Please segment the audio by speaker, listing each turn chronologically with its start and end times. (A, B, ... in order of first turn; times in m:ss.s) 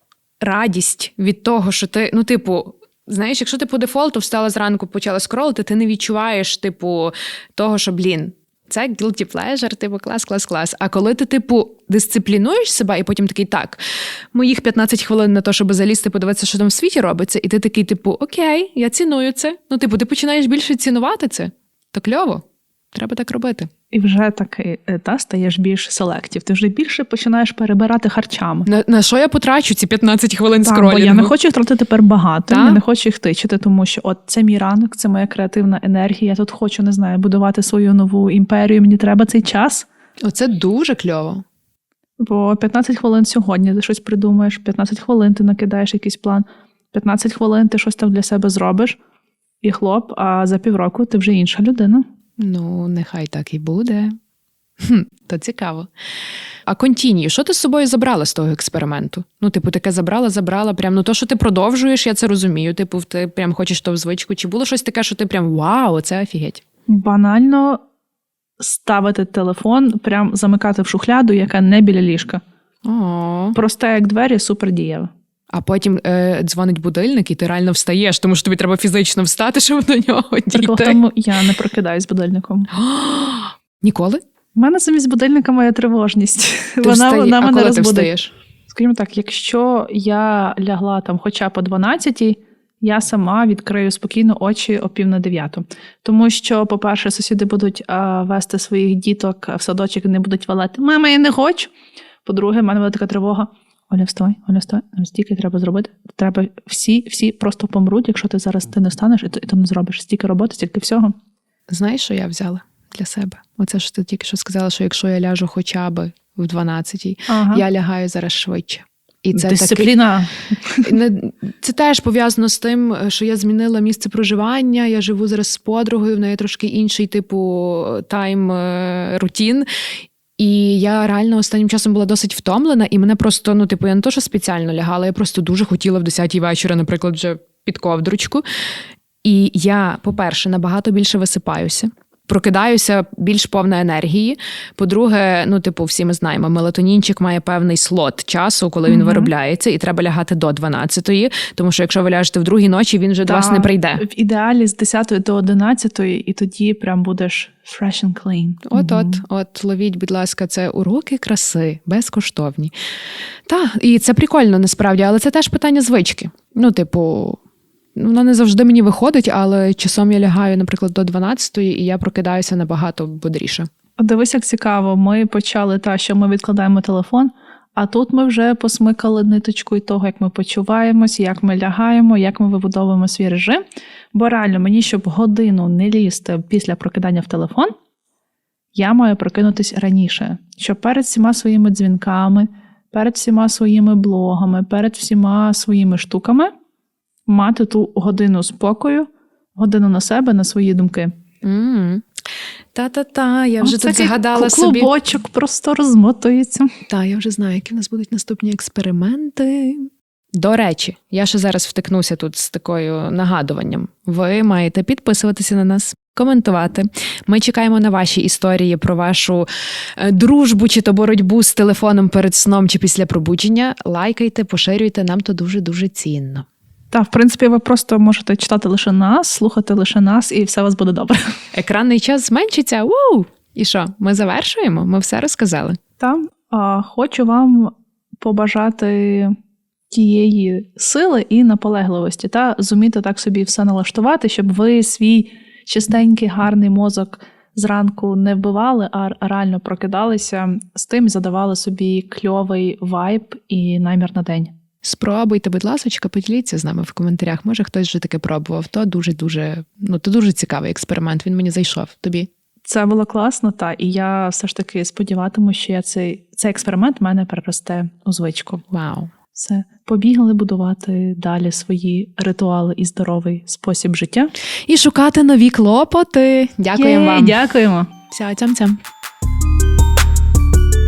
0:00.4-0:13.8 A
0:14.3-0:23.7 A
0:23.9-0:28.7 B
0:28.7-0:31.3 A
0:30.6-0:39.9 B
0:32.5-0:32.8 A
0:40.2-0:41.4 A
0:42.2-0:49.0 B
0:49.6-0:52.0 B
0:52.4-0:54.2 A
0:54.8-0:55.9 A
0:56.7-1:06.6 A
1:06.9-1:07.8 B
1:08.6-1:12.4 B
1:12.8-1:13.6 A
1:13.5-1:15.1 B
1:15.5-1:21.0 A
1:20.5-1:22.7 B
1:22.7-1:24.2 A
1:24.6-1:28.1 B
1:26.8-1:28.3 A
1:28.7-1:41.7 B
1:42.2-1:51.2 B
1:51.7-2:00.0 A
1:57.3-1:57.6 B
1:59.3-2:00.9 B
2:00.8-2:09.7 A
2:10.4-2:18.4 A
2:19.2-2:34.0 A
2:28.9-2:29.3 B
2:33.2-2:39.2 B
2:38.6-2:42.7 A
2:43.5-2:47.4 A
2:48.0-2:53.7 A
2:54.0-3:07.7 B
3:08.8-3:16.5 B
3:17.3-3:21.1 B
3:21.4-3:22.1 A
3:22.7-3:24.9 A
3:23.6-3:26.7 B
3:26.9-3:46.5 A
3:46.9-3:51.3 B
3:51.5-3:55.8 A
3:56.0-3:59.4 B
3:59.9-4:14.5 B
4:14.8-4:22.3 A
4:22.6-4:28.6 B
4:28.7-4:29.1 A
4:29.3-4:34.3 B
4:34.7-4:37.4 A
4:36.8-4:37.9 B
4:38.1-4:38.8 A